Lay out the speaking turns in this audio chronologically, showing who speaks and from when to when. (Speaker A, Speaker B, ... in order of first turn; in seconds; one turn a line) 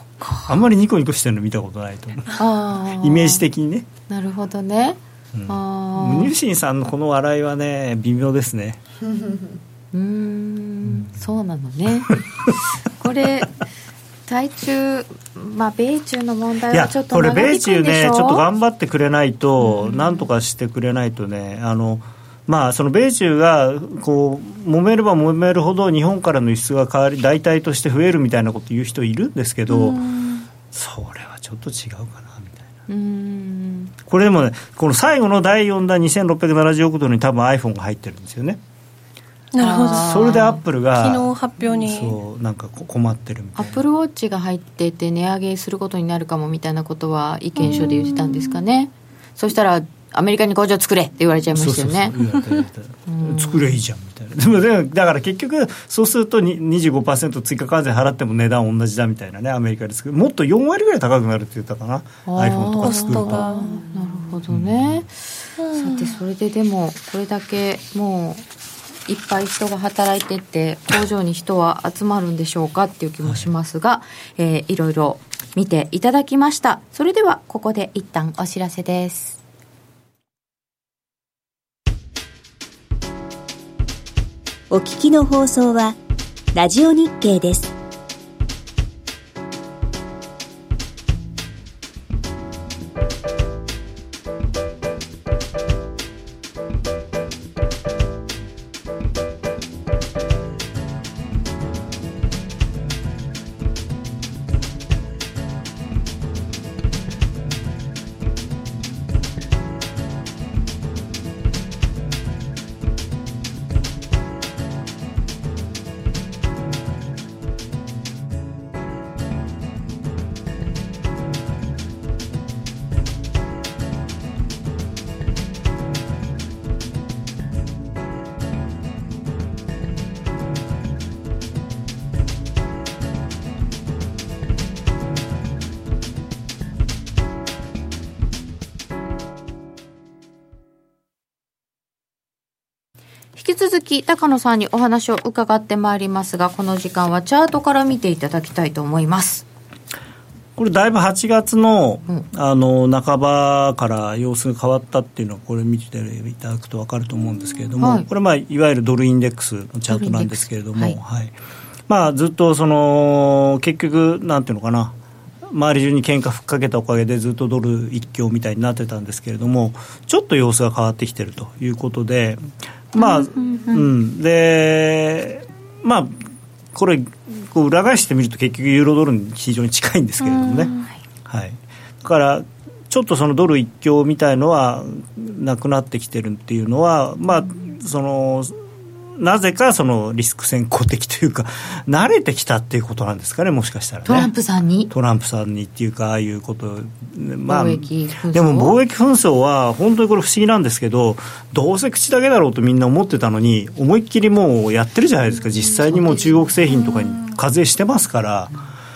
Speaker A: 0.2-0.6
Speaker B: 0.5-3.9
Speaker A: 2.4-3.4
Speaker A: 4.1-6.3
Speaker B: 5.3-8.8
Speaker A: 9.9-12.2
Speaker B: 10.8-11.2
Speaker B: 12.1-12.5
Speaker A: 12.8-13.6
Speaker A: 14.3-18.4
Speaker B: 16.7-30.0
Speaker A: 19.7-20.2
Speaker C: 29.7-30.5
Speaker B: 30.7-32.7
Speaker A: 32.9-33.9
Speaker B: 34.1-38.6
Speaker C: 39.5-42.2
Speaker A: 39.6-40.6
Speaker B: 39.9-43.8
Speaker A: 43.6-52.2
Speaker C: 47.6-48.6
Speaker B: 51.5-63.5
Speaker A: 53.1-53.8
Speaker A: 62.3-65.2
Speaker C: 62.8-63.9
Speaker B: 64.5-65.1
Speaker C: 65.6-66.2
Speaker A: 65.7-68.5
Speaker A: 69.1-79.4
Speaker B: 73.2-73.5
Speaker D: 84.7-86.0
Speaker D: 86.5-87.7
Speaker A: 143.4-149.4
Speaker B: 150.6-161.4
Speaker A: 157.8-158.1
Speaker A: 159.9-161.0
Speaker B: 161.9-176.2
Speaker A: 173.0-173.9
Speaker B: 176.7-180.7
Speaker C: 180.4-180.9
Speaker B: 181.3-188.7
Speaker B: 189.2-194.3
Speaker A: 194.1-194.9
Speaker B: 194.9-208.5
Speaker A: 197.5-198.8
Speaker A: 205.9-206.1
Speaker C: 206.9-207.2